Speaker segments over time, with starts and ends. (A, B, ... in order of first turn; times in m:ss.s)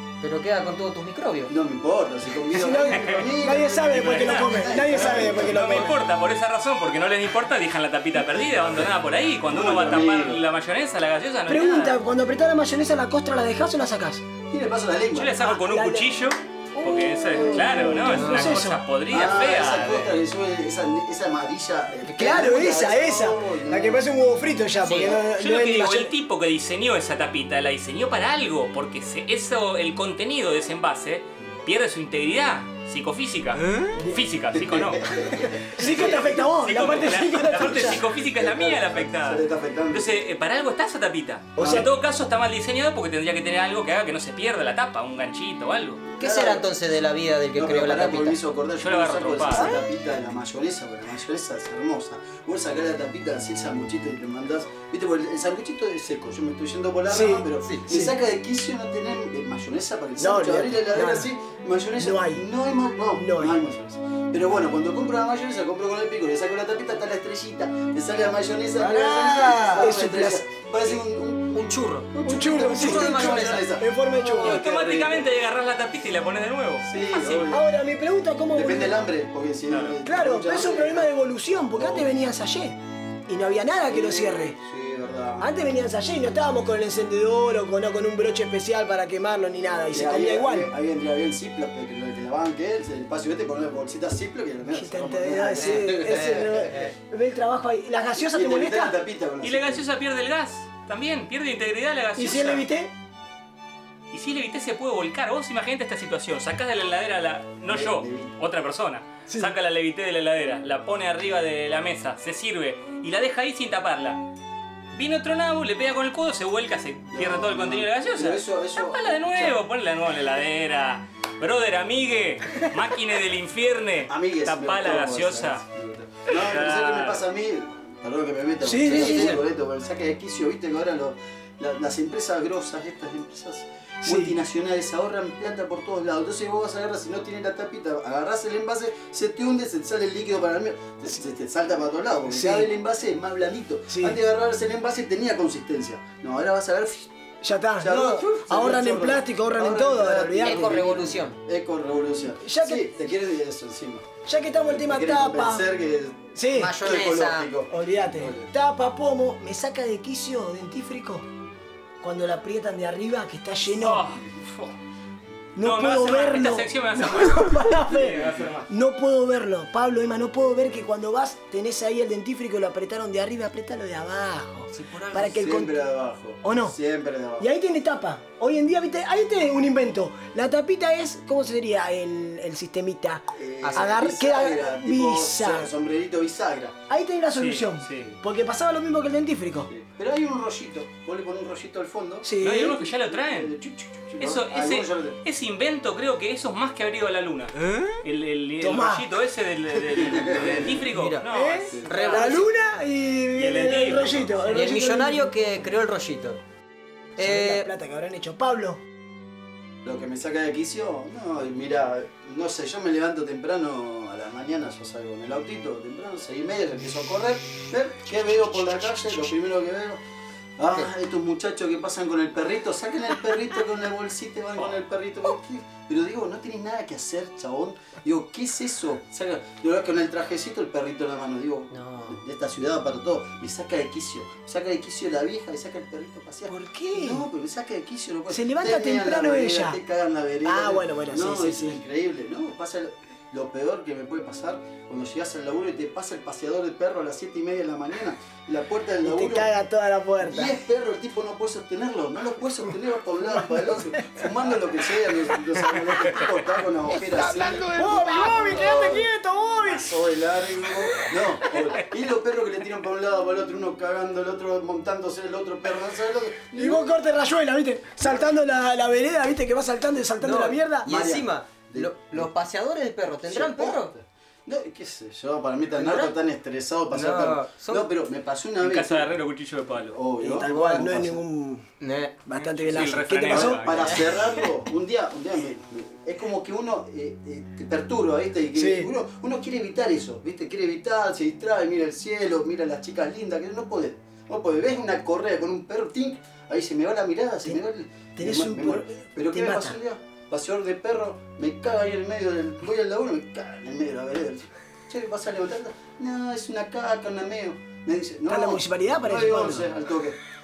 0:00.2-0:01.5 A
0:01.5-0:05.8 B
0:02.5-0:06.0 C
0:02.9-0:03.2 D
0:03.8-0:12.0 D
0:09.5-0:10.4 B
0:11.5-0:14.2 C
0:14.5-0:15.4 B
0:15.1-0:20.2 D
0:15.4-0:16.2 C
0:16.8-0:18.8 C
0:17.3-0:24.0 B
0:22.1-0:26.1 C
0:24.8-0:46.0 D
0:33.9-0:34.2 C
0:34.5-0:36.5 B
0:35.3-0:38.0 C
0:37.7-0:40.2 B
0:41.6-0:41.9 C
0:41.6-0:41.9 B
0:46.1-0:46.7 B
0:46.2-0:48.4 A
0:47.6-1:11.6 B
0:48.8-0:49.8 D
0:57.1-0:58.0 C
0:57.6-0:58.1 A
1:00.2-1:01.3 C
1:02.0-1:02.5 C
1:03.2-1:03.6 C
1:08.8-1:09.9 A
1:08.9-1:10.4 C
1:10.8-1:13.7 A
1:12.1-1:15.4 B
1:12.2-1:14.6 C
1:14.4-1:17.5 D
1:16.8-1:17.6 B
1:17.5-1:19.0 C
1:18.5-1:21.1 B
1:19.7-1:20.0 D
1:20.0-1:24.6 C
1:21.8-1:22.1 B
1:23.9-1:25.5 B
1:25.4-1:30.7 C
1:29.9-1:36.7 B
1:34.7-1:39.0 C
1:35.6-1:36.9 A
1:38.2-1:39.8 B
1:39.4-1:42.6 D
1:42.2-1:42.9 C
1:44.1-1:54.2 D
1:47.7-1:48.3 B
1:49.3-1:49.5 C
1:54.9-2:05.6 D
1:57.1-1:59.6 B
2:04.1-2:27.1 B
2:06.3-2:07.2 D
2:08.6-2:09.4 C
2:09.0-2:09.3 D
2:14.0-2:14.4 C
2:22.3-2:22.7 C
2:23.9-2:24.2 C
2:27.4-2:30.8 C
2:27.8-2:34.1 B
2:30.4-2:31.4 A
2:32.4-2:33.1 C
2:34.3-2:35.7 C
2:34.7-2:38.5 B
2:36.4-2:36.8 C
2:36.5-2:37.5 A
2:37.7-2:41.3 C
2:42.0-2:44.1 C
2:43.8-2:44.7 D
2:45.6-2:55.8 C
2:45.6-2:48.7 D
2:48.1-2:48.5 B
2:54.7-2:55.4 A
2:55.2-2:57.5 B
2:56.4-2:56.8 C
2:57.4-3:05.7 C
3:03.4-3:06.8 B
3:03.6-3:03.9 A
3:06.9-3:09.7 C
3:07.3-3:08.2 D
3:09.7-3:15.2 B
3:12.2-3:12.8 C
3:12.4-3:13.5 D
3:14.2-3:22.4 D
3:18.6-3:19.1 C
3:19.9-3:20.9 B
3:20.9-3:21.3 A
3:21.2-3:25.3 C
3:21.9-3:22.5 A
3:23.4-3:24.4 D
3:24.5-3:26.4 A
3:27.2-3:27.7 A
3:27.2-3:28.8 C
3:29.8-3:40.0 B
3:40.6-4:09.5 B
3:51.7-3:52.2 A
3:56.5-3:57.3 C
3:58.3-3:59.8 C
4:00.4-4:01.8 C
4:09.0-4:10.6 C
4:10.2-4:19.0 B
4:17.3-4:20.0 C
4:19.7-4:26.9 B
4:26.5-4:30.9 C
4:30.2-4:33.9 A
4:30.8-4:32.3 B
4:33.2-4:39.2 B
4:35.8-4:36.1 A
4:36.9-4:37.9 A
4:38.6-4:40.0 D
4:39.9-4:41.2 B
4:40.2-4:41.7 C
4:40.3-4:40.9 A
4:41.8-4:42.3 A
4:42.3-4:43.9 C
4:42.6-4:44.0 D
4:43.3-5:10.2 B
4:48.6-4:48.9 C
4:58.2-4:59.8 C
5:08.3-5:09.7 C